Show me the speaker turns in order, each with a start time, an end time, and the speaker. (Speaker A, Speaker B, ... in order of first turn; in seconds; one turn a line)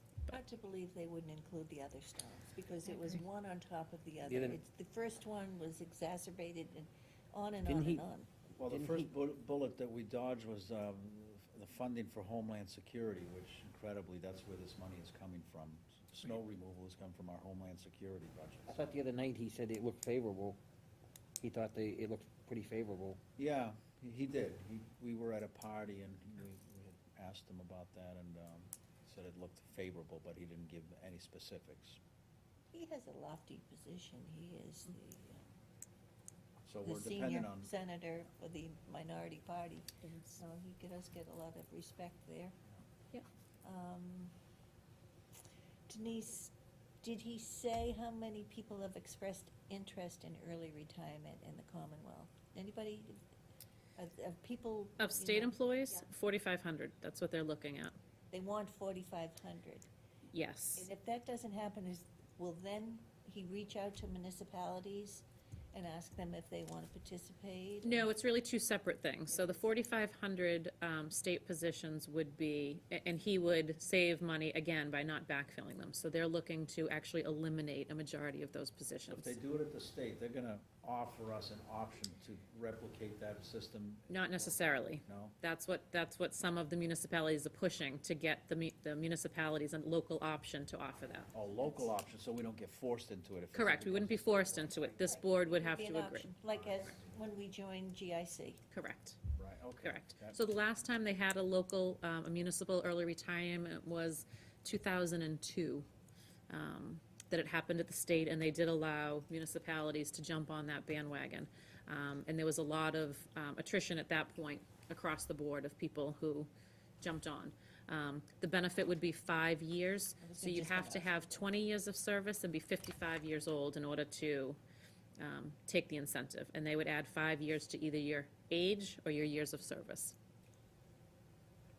Speaker A: 0.3-8.3
Speaker B: 4.3-4.6
Speaker B: 7.7-8.1
Speaker C: 8.6-18.8
Speaker B: 8.7-9.1
Speaker B: 18.7-20.6
Speaker B: 21.4-23.2
Speaker C: 23.4-32.0
Speaker A: 32.7-35.5
Speaker C: 36.7-37.7
Speaker A: 36.9-42.6
Speaker D: 40.0-40.4
Speaker A: 43.6-44.3
Speaker A: 45.9-53.2
Speaker A: 54.0-56.0
Speaker D: 55.0-58.0
Speaker A: 58.3-59.9
Speaker D: 60.3-60.9
Speaker A: 60.8-68.1
Speaker D: 67.8-79.4
Speaker A: 69.3-69.7
Speaker C: 79.1-85.4
Speaker D: 84.1-91.3
Speaker C: 91.3-95.0
Speaker A: 91.6-91.9
Speaker D: 93.5-96.3
Speaker A: 95.0-98.6
Speaker C: 96.5-97.2
Speaker D: 98.7-99.2
Speaker C: 99.3-100.4
Speaker D: 99.8-105.9
Speaker D: 106.5-116.5
Speaker D: 117.0-124.6
Speaker A: 120.2-121.1
Speaker D: 125.2-130.2